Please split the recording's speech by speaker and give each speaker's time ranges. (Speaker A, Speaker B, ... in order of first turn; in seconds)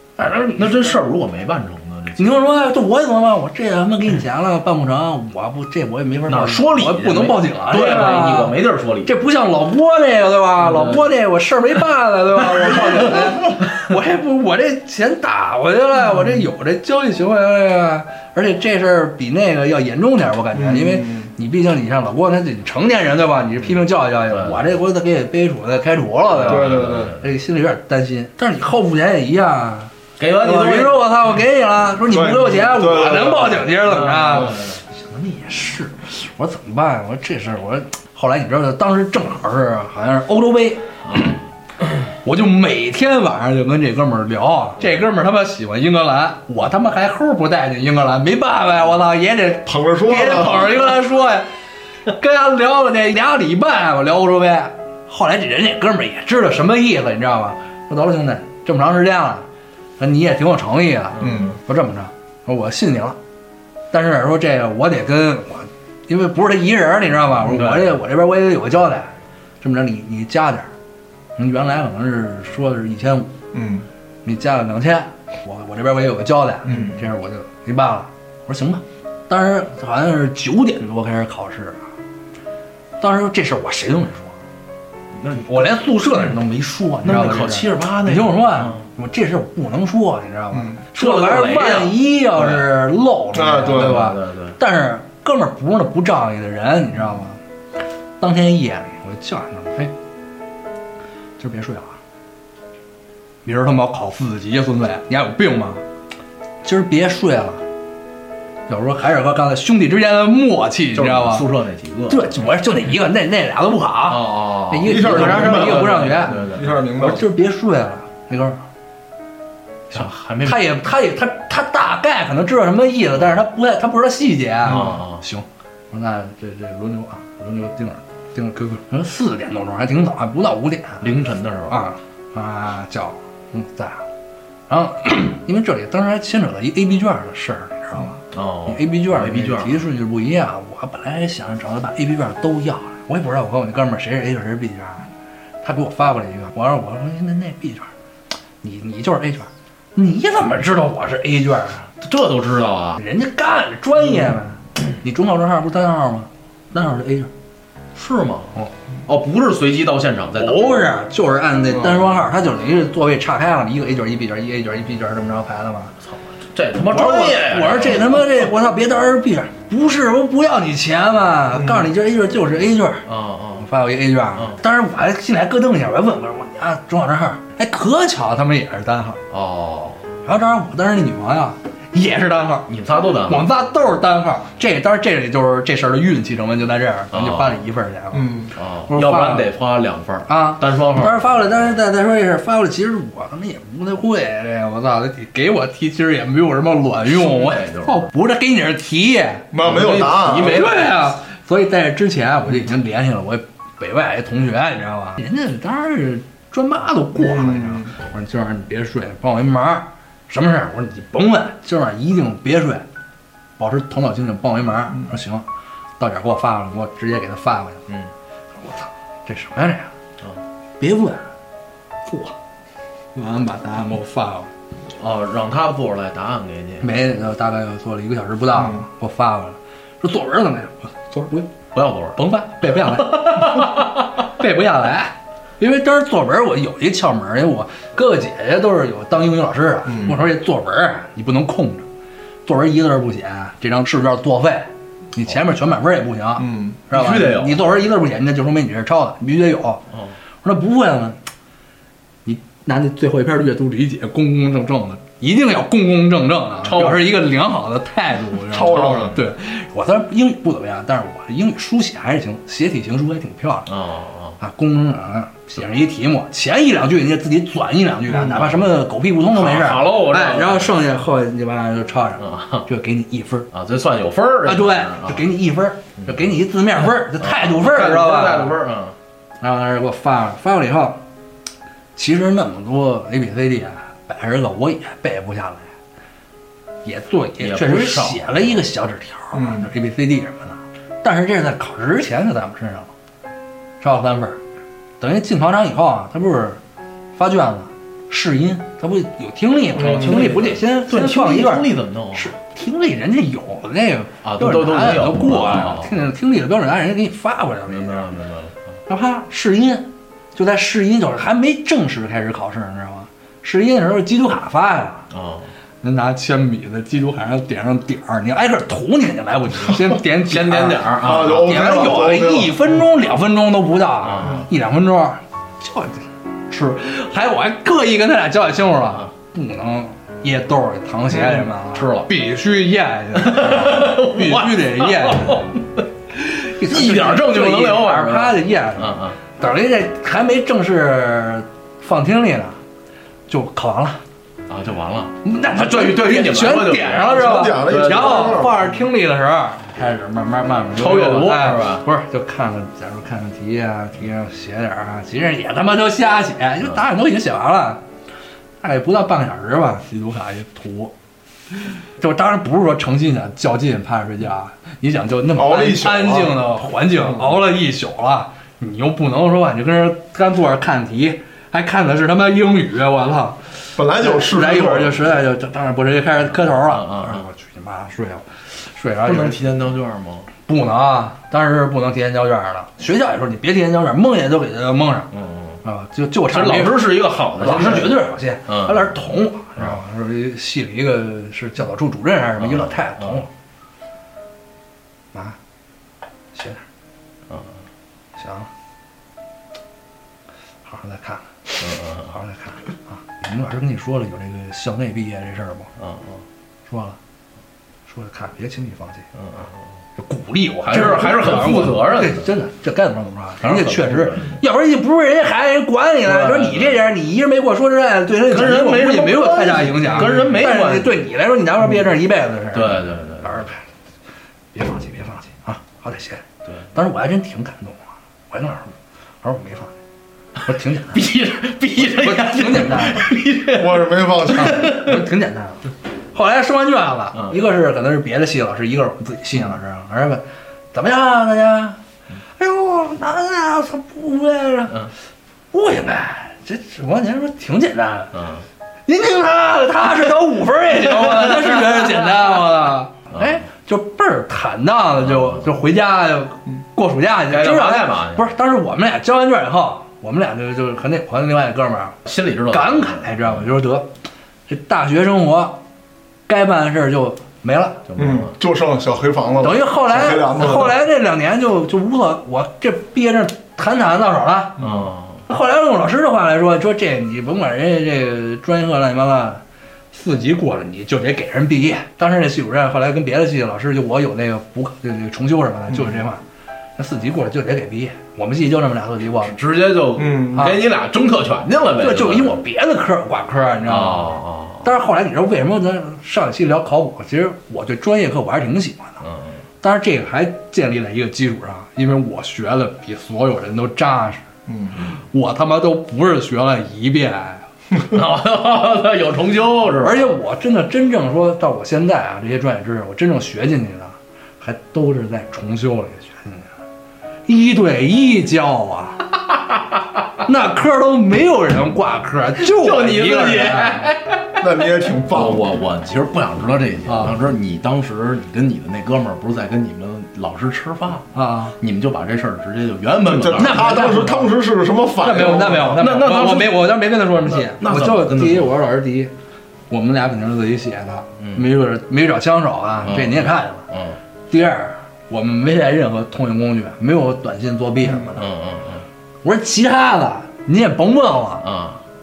Speaker A: 0.2-1.0, 2.2-40.9, 42.2-51.5, 52.1-59.5, 60.0-63.2, 63.9-70.7, 71.4-73.3, 74.2-81.8, 83.0-84.4, 85.3-97.4, 98.2-99.9, 101.4-102.0, 103.4-105.8, 106.6-107.6, 108.7-111.5, 112.1-116.5, 117.0-118.6, 119.9-131.1, 131.7-134.1, 134.7-145.1, 145.6-147.9, 148.6-151.9, 153.0-157.3, 160.4-165.9, 166.8-173.1, 173.6-179.2, 180.2-182.7, 183.2-189.5, 190.3-199.5, 200.3-212.9, 213.6-215.5, 216.0-217.9, 218.6-219.9, 220.8-221.3, 222.1-222.4, 223.2-224.5, 226.8-231.5, 232.2-241.8, 242.4-249.8, 250.4-251.2, 252.2-263.7, 264.4-273.5, 274.4-278.6, 279.4-281.0, 282.0-285.7, 286.9-292.9, 293.8-294.4, 295.0-296.6, 297.2-308.1, 308.9-315.1, 315.8-335.5, 336.1-342.6, 343.3-344.0, 345.2-357.8, 358.6-360.9, 361.7-379.4, 380.5-385.1, 385.6-393.3, 396.3-396.6, 398.2-398.5, 400.7-405.7, 406.7-407.0, 407.9-409.1, 410.0-423.6, 424.5-429.7, 430.5-431.1, 431.8-433.1, 434.3-440.2, 440.7-441.8, 442.4-444.9, 445.5-448.1, 448.9-463.9, 464.5-465.6, 466.3-467.9, 469.4-474.6, 475.3-486.2, 486.8-489.4, 490.3-490.7, 491.8-499.0, 499.6-504.3, 505.1-507.5, 509.8-516.5, 517.3-519.1, 520.2-523.9, 526.9-527.2, 531.1-531.5, 533.4-534.3, 535.0-539.1, 539.7-543.6, 544.3-548.3, 549.2-551.5
Speaker B: 0.6-2.4, 6.3-9.2, 10.6-11.1, 23.6-24.7, 26.3-27.2, 30.2-31.1, 33.9-34.8, 41.0-41.4, 50.3-51.0, 61.2-61.5, 67.4-67.9, 85.2-85.6, 87.0-88.9, 91.0-92.7, 93.6-94.6, 110.9-112.2, 114.1-116.7, 119.9-120.7, 124.7-125.2, 131.0-131.8, 138.3-139.8, 152.0-153.0, 157.9-158.6, 159.1-160.9, 166.0-168.3, 173.1-173.7, 179.3-180.1, 182.7-183.5, 187.1-187.6, 188.6-191.6, 197.1-198.1, 199.6-201.0, 225.0-226.9, 231.7-233.9, 246.9-247.8, 256.6-257.1, 258.6-259.0, 263.7-264.4, 268.2-268.7, 269.3-270.8, 272.2-272.7, 273.5-275.2, 277.1-279.0, 287.4-288.6, 299.8-302.3, 304.2-306.0, 307.7-308.6, 315.1-315.5, 319.7-321.8, 324.0-324.5, 331.7-332.1, 333.1-335.7, 336.6-339.2, 344.5-348.5, 350.8-351.9, 376.6-377.2, 379.0-380.3, 385.1-385.6, 386.3-389.0, 392.4-393.2, 397.3-397.6, 401.6-402.1, 405.8-406.2, 409.1-409.6, 410.6-412.3, 413.4-414.4, 416.1-416.8, 418.3-421.0, 422.5-423.4, 430.9-435.1, 448.1-448.5, 451.0-451.9, 453.1-453.4, 455.0-455.5, 457.3-458.2, 462.1-463.5, 467.9-468.3, 474.6-475.2, 489.2-492.4, 493.6-494.7, 499.0-499.4, 507.8-510.2, 522.4-531.1, 531.6-533.8, 535.8-536.7, 537.3-538.5, 541.2-541.5, 542.8-544.0, 548.1-548.9, 551.4-551.8
Speaker C: 20.5-21.3, 26.5-27.2, 32.1-33.7, 49.6-50.8, 61.2-61.6, 73.5-73.9, 76.7-77.0, 90.5-90.8, 93.3-94.0, 114.8-117.2, 161.8-162.0, 171.6-171.9, 188.1-188.5, 199.5-200.7, 207.2-207.9, 239.9-240.1, 246.4-246.8, 258.5-259.2, 289.3-289.7, 321.0-322.7, 331.1-331.4, 347.1-348.7, 365.3-366.4, 373.8-375.0, 433.5-434.8, 468.0-470.8, 490.0-490.4, 504.5-504.8, 524.4-525.5, 533.1-535.8